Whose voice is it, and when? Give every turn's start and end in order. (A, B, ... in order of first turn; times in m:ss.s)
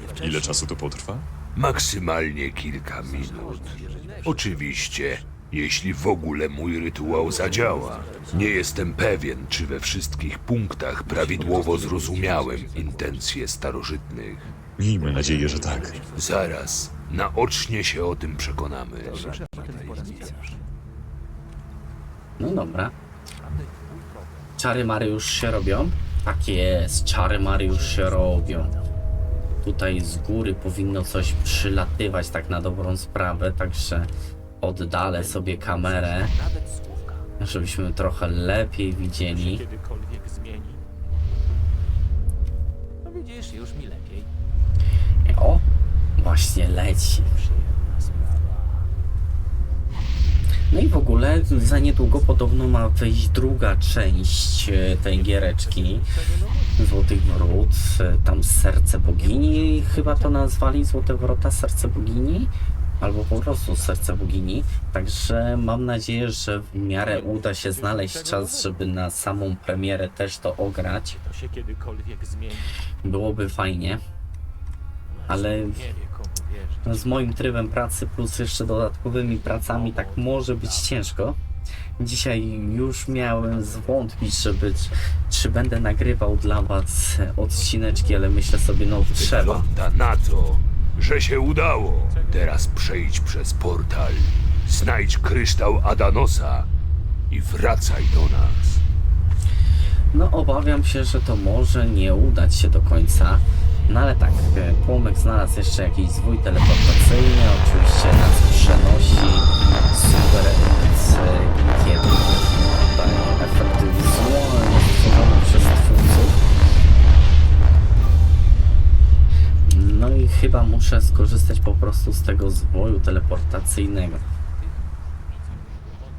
0:00.2-0:01.3 A
0:01.5-0:14.5 B
0:14.8-0:16.0 A
0:16.2-0:20.5 B
0:22.4-0:22.9 C
0:24.6-0:28.7 C
0:29.6-0:34.1 C
0:34.6-0:36.3 C
0:37.4-0:39.6 C
0:45.2-0:45.6 C
0:46.2-0:47.3 C
0:50.7-0:56.1 C
0:56.8-1:11.2 C
1:13.0-1:14.0 C
1:15.3-1:15.9 C
1:16.8-1:21.4 C
1:22.0-1:29.6 C
1:29.2-1:36.7 B
1:37.3-1:38.8 B
1:40.1-1:56.4 C
1:59.7-2:04.2 C